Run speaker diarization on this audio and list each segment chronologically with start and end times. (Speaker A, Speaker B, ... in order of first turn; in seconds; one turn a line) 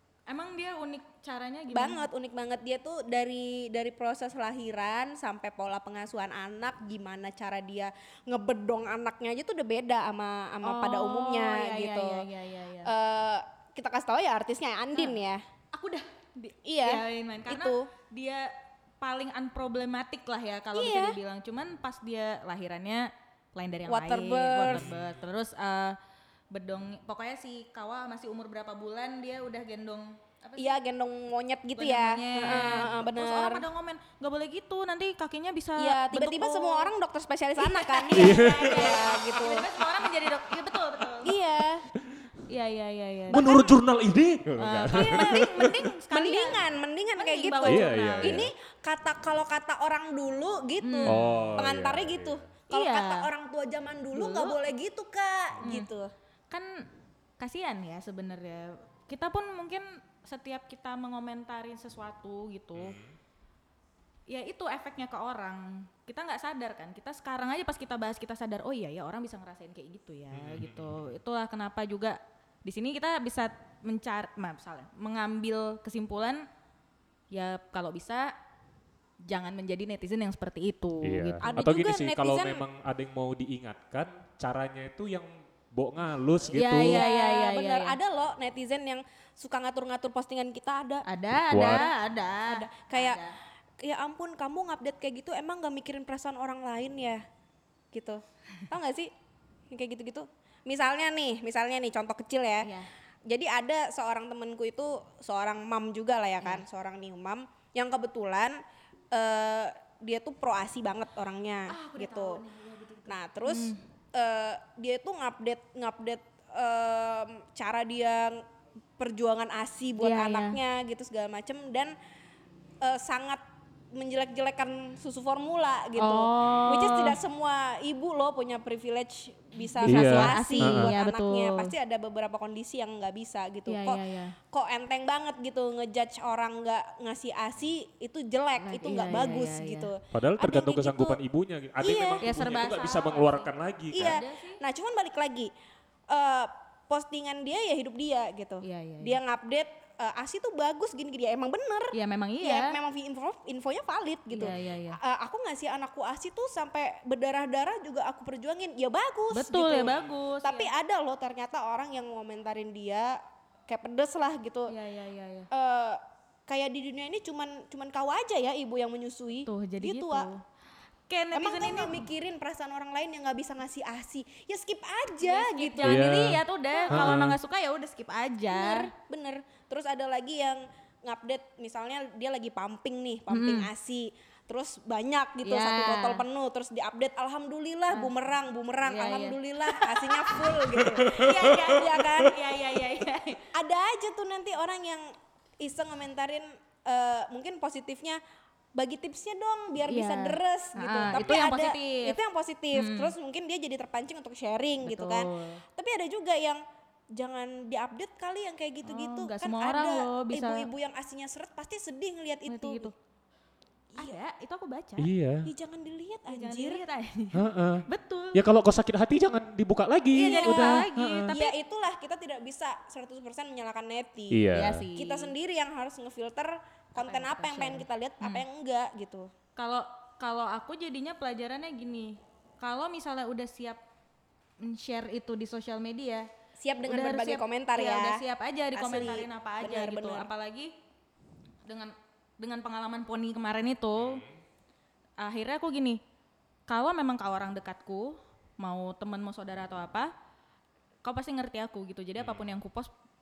Speaker A: 0.3-2.1
Speaker B: 1.7-12.2
Speaker A: 10.6-12.9
Speaker B: 12.8-15.4
Speaker A: 15.7-18.5
Speaker B: 16.6-17.9
Speaker A: 19.0-26.0
Speaker B: 20.7-21.2
Speaker B: 23.9-24.9
Speaker C: 24.7-25.2
Speaker A: 26.5-30.8
Speaker B: 30.6-33.6
Speaker A: 31.8-36.9
Speaker B: 35.8-39.7
Speaker A: 37.6-41.3
Speaker C: 38.1-38.9
Speaker B: 41.2-41.9
Speaker A: 42.5-43.7
Speaker C: 43.3-45.8
Speaker B: 43.3-43.7
Speaker A: 44.6-46.6
Speaker B: 44.9-56.1
Speaker A: 47.2-48.4
Speaker C: 47.6-48.5
Speaker A: 50.8-51.5
Speaker C: 51.0-52.5
Speaker A: 52.7-53.3
Speaker A: 54.1-54.6
Speaker A: 55.6-55.9
Speaker A: 56.5-56.9
Speaker A: 57.4-63.0
Speaker C: 62.8-63.1
Speaker A: 64.3-76.5
Speaker C: 70.3-71.1
Speaker A: 77.3-78.3
Speaker A: 79.3-81.6
Speaker C: 81.0-87.0
Speaker B: 81.5-82.6
Speaker A: 86.5-88.0
Speaker B: 86.7-91.0
Speaker A: 91.0-93.4
Speaker C: 91.3-91.9
Speaker B: 92.5-93.2
Speaker B: 93.8-97.2
Speaker B: 97.9-99.1
Speaker B: 99.7-102.7
Speaker A: 102.6-102.9
Speaker B: 103.3-108.6
Speaker B: 109.1-112.4
Speaker A: 111.7-113.8
Speaker B: 113.1-118.4
Speaker B: 119.0-121.9
Speaker A: 120.0-120.6
Speaker B: 122.8-123.4
Speaker B: 123.9-141.2
Speaker A: 126.0-127.2
Speaker A: 129.8-131.7
Speaker C: 129.9-130.9
Speaker A: 133.7-134.3
Speaker A: 138.6-139.9
Speaker C: 140.1-144.2
Speaker B: 141.8-142.2
Speaker A: 142.2-144.6
Speaker B: 143.9-145.5
Speaker B: 146.1-164.7
Speaker A: 148.6-149.2
Speaker A: 151.9-152.7
Speaker A: 154.3-155.0
Speaker A: 159.3-160.7
Speaker A: 164.7-165.5
Speaker B: 165.5-170.3
Speaker A: 169.4-170.4
Speaker A: 171.1-172.1
Speaker B: 171.3-177.2
Speaker A: 175.2-178.9
Speaker C: 175.8-177.4
Speaker B: 178.5-192.4
Speaker A: 183.3-183.7
Speaker A: 185.4-186.2
Speaker A: 188.8-193.5
Speaker B: 193.5-198.2
Speaker B: 198.7-206.6
Speaker A: 199.8-202.2
Speaker A: 202.7-203.1
Speaker A: 204.8-205.6
Speaker B: 207.1-212.9
Speaker A: 208.8-210.7
Speaker A: 212.5-212.9
Speaker A: 214.0-215.1
Speaker C: 215.0-215.5
Speaker B: 215.4-216.8
Speaker A: 216.3-218.4
Speaker C: 217.3-221.3
Speaker B: 220.1-229.3
Speaker A: 220.2-221.5
Speaker C: 224.3-224.8
Speaker A: 224.5-225.3
Speaker A: 227.0-228.4
Speaker A: 229.6-233.8
Speaker A: 234.6-236.3
Speaker B: 236.6-238.2
Speaker A: 236.8-240.7
Speaker B: 238.7-240.3
Speaker A: 241.6-244.2
Speaker C: 243.9-244.3
Speaker A: 245.2-246.0
Speaker A: 246.7-250.1
Speaker A: 251.0-252.9
Speaker C: 252.2-252.5